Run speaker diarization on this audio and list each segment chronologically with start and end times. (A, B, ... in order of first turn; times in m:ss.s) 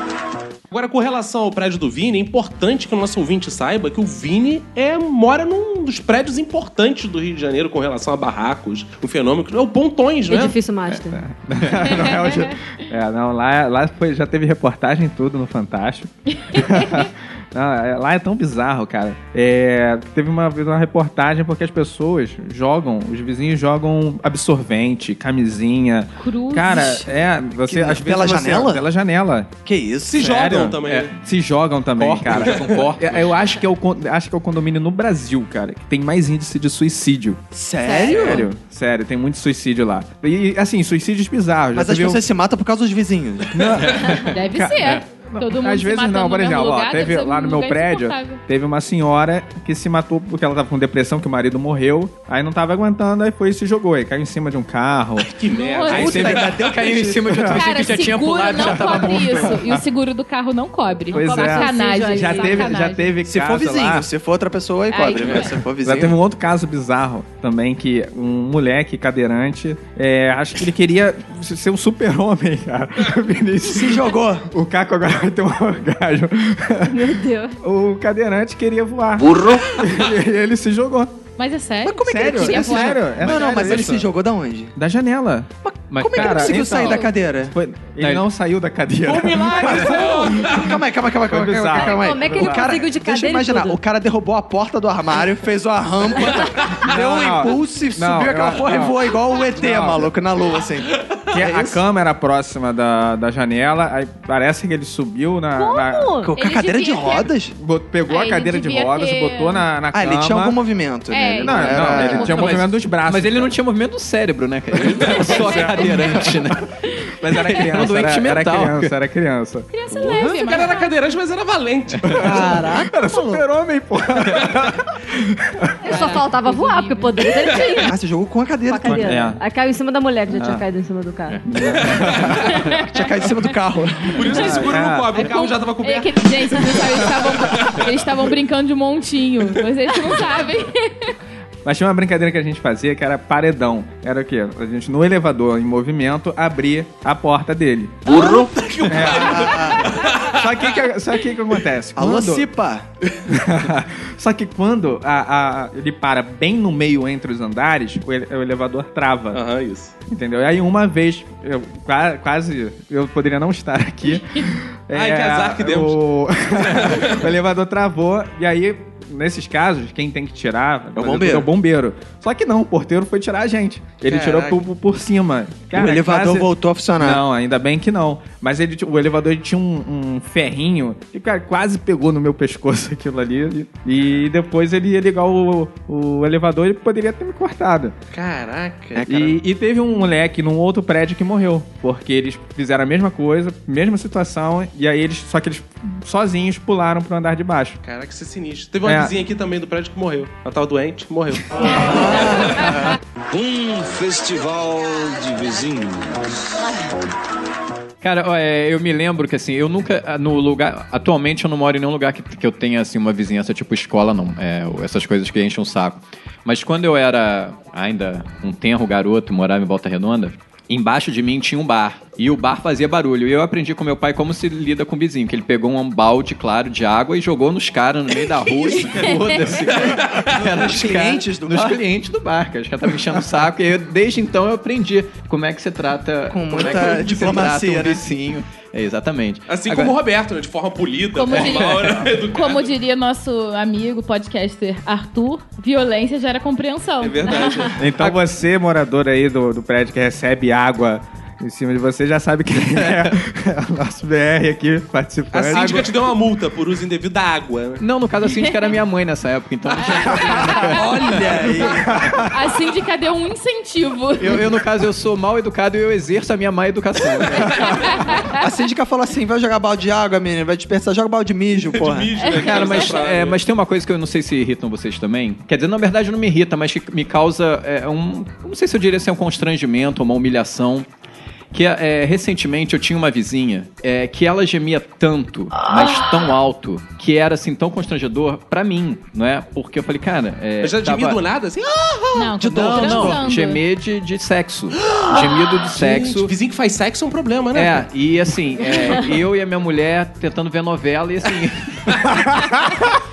0:00.7-0:10.6 A
0:10.3-0:11.2 B
0:10.9-0:29.5 C
0:11.8-0:12.6 D
0:16.5-0:17.0 D
0:26.2-0:27.1 D
0:27.6-0:28.8 E
0:29.6-0:30.3 E
0:30.1-0:31.1 A
0:30.2-0:37.4 C
0:30.8-0:31.1 F
0:32.0-0:33.6 F
0:32.3-0:32.8 A
0:37.5-0:38.5 E
0:37.8-0:38.5 D
0:38.0-0:42.2 C
0:41.8-0:43.9 E
0:43.5-0:55.4 C
0:44.2-0:48.4 D
0:55.2-0:56.8 A
0:55.5-0:56.1 D
0:55.9-0:57.4 E
0:55.9-0:59.6 F
0:57.2-0:57.6 C
0:57.5-1:03.2 D
0:58.8-0:59.8 C
1:01.1-1:02.8 B
1:01.1-1:04.1 C
1:03.2-1:06.2 E
1:04.9-1:05.6 D
1:05.8-1:17.1 C
1:13.6-1:14.5 E
1:16.9-1:17.6 B
1:17.6-1:21.2 C
1:19.2-1:19.8 G
1:21.4-1:23.0 D
1:21.9-1:24.1 C
1:21.9-1:24.8 E
1:24.8-1:32.8 C
1:25.6-1:27.6 E
1:25.9-1:26.8 F
1:28.0-1:28.3 F
1:29.1-1:30.7 A
1:29.6-1:41.8 E
1:31.8-1:33.8 B
1:36.6-1:36.8 A
1:36.8-1:40.1 C
1:41.3-1:46.3 C
1:45.6-1:46.3 B
1:46.2-1:47.6 E
1:46.4-1:47.3 D
1:47.6-1:50.6 C
1:48.1-1:49.7 D
1:49.9-1:52.4 E
1:51.1-1:52.5 D
1:51.4-1:53.5 C
1:51.7-1:56.7 F
1:54.9-1:56.4 C
1:55.0-1:55.9 D
1:57.1-2:00.3 C
1:57.3-1:59.0 F
1:59.7-2:01.1 D
2:00.3-2:02.4 A
2:02.0-2:06.1 C
2:02.2-2:03.4 E
2:02.3-2:02.5 B
2:05.8-2:08.0 B
2:05.9-2:07.7 D
2:07.8-2:09.3 E
2:08.7-2:11.4 B
2:08.8-2:09.4 C
2:10.3-2:10.6 C
2:11.4-2:12.8 C
2:11.8-2:12.5 A
2:12.4-2:12.9 D
2:12.8-2:14.6 E
2:14.1-2:18.0 A
2:14.3-2:15.3 C
2:15.1-2:21.2 D
2:21.6-2:32.4 C
2:28.1-2:28.5 D
2:28.1-2:30.6 A
2:28.9-2:29.9 E
2:32.0-2:32.9 E
2:33.3-2:39.4 C
2:39.3-2:39.9 A
2:40.1-3:08.0 C
2:44.9-2:46.0 A
2:46.5-2:47.3 A
2:51.0-2:51.5 E
2:54.0-2:54.6 A
2:55.7-2:57.2 E
3:08.1-3:09.0 A
3:09.0-3:09.4 E
3:09.0-3:17.8 C
3:17.8-3:22.7 A
3:18.8-3:19.1 C
3:21.7-3:22.8 E
3:23.3-3:26.5 G
3:28.0-4:00.0 F
3:48.7-3:50.4 A
3:50.3-3:51.8 E
3:56.3-3:58.0 E
3:56.6-3:57.0 A
3:59.5-4:02.7 A
4:01.2-4:07.7 D
4:01.3-4:02.0 F
4:07.0-4:07.8 A
4:07.8-4:15.9 C
4:12.7-4:13.1 F
4:15.3-4:17.8 A
4:15.5-4:15.9 F
4:17.8-4:21.2 F
4:18.2-4:18.8 D
4:19.8-4:21.6 D
4:20.6-4:22.2 E
4:21.5-4:22.4 C
4:22.2-4:24.5 D
4:24.2-4:27.9 F
4:27.6-4:28.4 D
4:28.4-4:32.1 E
4:31.7-4:33.4 A
4:32.2-4:32.8 D
4:32.3-4:40.9 F
4:41.5-4:51.2 F
4:50.6-4:52.3 A
4:52.2-4:53.6 D
4:52.4-4:53.2 E
4:52.5-4:56.3 F
4:54.9-4:57.9 A
4:57.5-5:02.3 F